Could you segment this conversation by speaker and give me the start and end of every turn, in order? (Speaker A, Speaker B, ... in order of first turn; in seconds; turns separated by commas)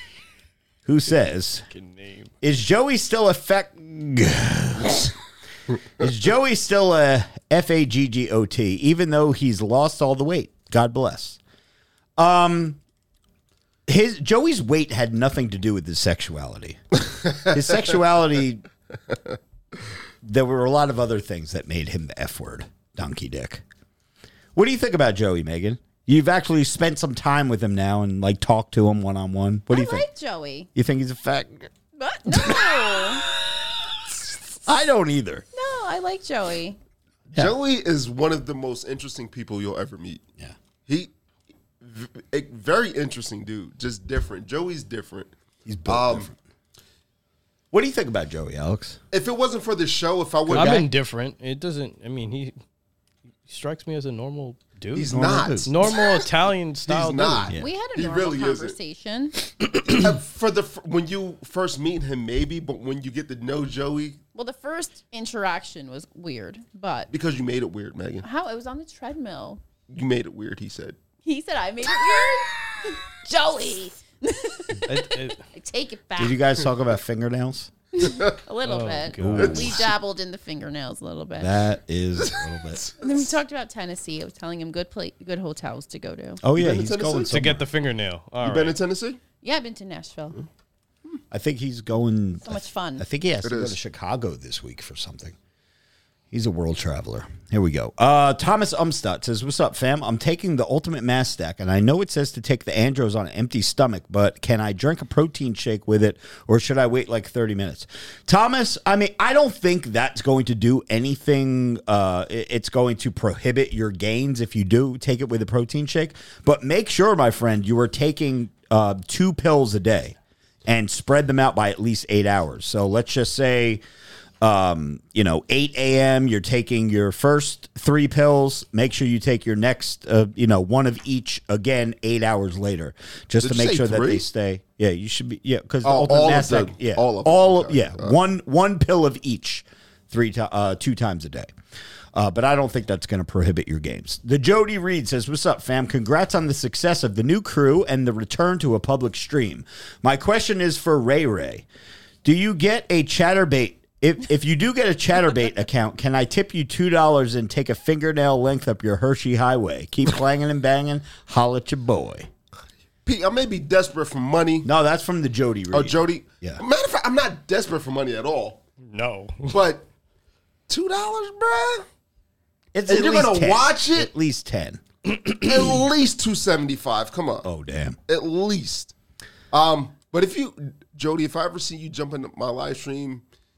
Speaker A: 0.8-1.7, Speaker B: 1.7-2.3, Speaker A: 2.4-5.1, Speaker A: 6.0-11.4, Speaker A: 12.2-12.8, Speaker A: 13.9-16.8, Speaker A: 17.3-18.6, Speaker A: 20.2-23.6, Speaker A: 24.5-30.0, Speaker C: 29.7-30.7, Speaker A: 30.7-31.7, Speaker C: 31.9-33.2, Speaker A: 32.3-35.4, Speaker C: 35.5-36.8, Speaker D: 37.3-40.2, Speaker D: 40.9-41.1, Speaker D: 41.8-45.3, Speaker A: 45.6-46.4, Speaker D: 45.9-46.3, Speaker A: 47.7-49.0, Speaker D: 49.1-50.9, Speaker A: 50.5-50.9, Speaker B: 50.5-52.5, Speaker B: 53.5-57.5, Speaker D: 54.9-56.2, Speaker A: 55.1-55.7, Speaker D: 56.9-58.8, Speaker C: 57.5-59.4, Speaker D: 59.7-64.2, Speaker C: 64.3-67.1, Speaker D: 67.1-68.2, Speaker C: 68.2-69.6, Speaker D: 69.9-71.0, Speaker C: 71.2-76.4, Speaker B: 74.9-75.4, Speaker A: 76.2-77.7, Speaker C: 78.0-81.5, Speaker B: 78.6-79.6, Speaker A: 79.2-79.9, Speaker D: 79.5-79.7, Speaker A: 81.4-82.8, Speaker D: 82.2-83.1, Speaker C: 83.0-86.4, Speaker A: 86.4-87.7, Speaker D: 86.5-87.3, Speaker B: 87.3-88.8, Speaker D: 88.4-89.2, Speaker C: 89.4-90.4, Speaker A: 91.3-95.3, Speaker C: 92.4-93.0, Speaker D: 93.4-93.8, Speaker A: 96.3-123.8, Speaker A: 124.4-141.5, Speaker D: 133.4-134.2, Speaker D: 135.8-138.2, Speaker A: 142.1-151.7, Speaker A: 152.2-162.3, Speaker D: 163.0-164.7, Speaker A: 164.6-166.6, Speaker D: 165.7-168.6, Speaker B: 168.8-169.6, Speaker D: 169.5-169.8, Speaker D: 170.7-171.8, Speaker A: 172.7-175.8, Speaker D: 172.9-174.1, Speaker D: 175.2-177.5, Speaker A: 177.4-178.0, Speaker D: 178.1-178.9, Speaker D: 179.5-183.2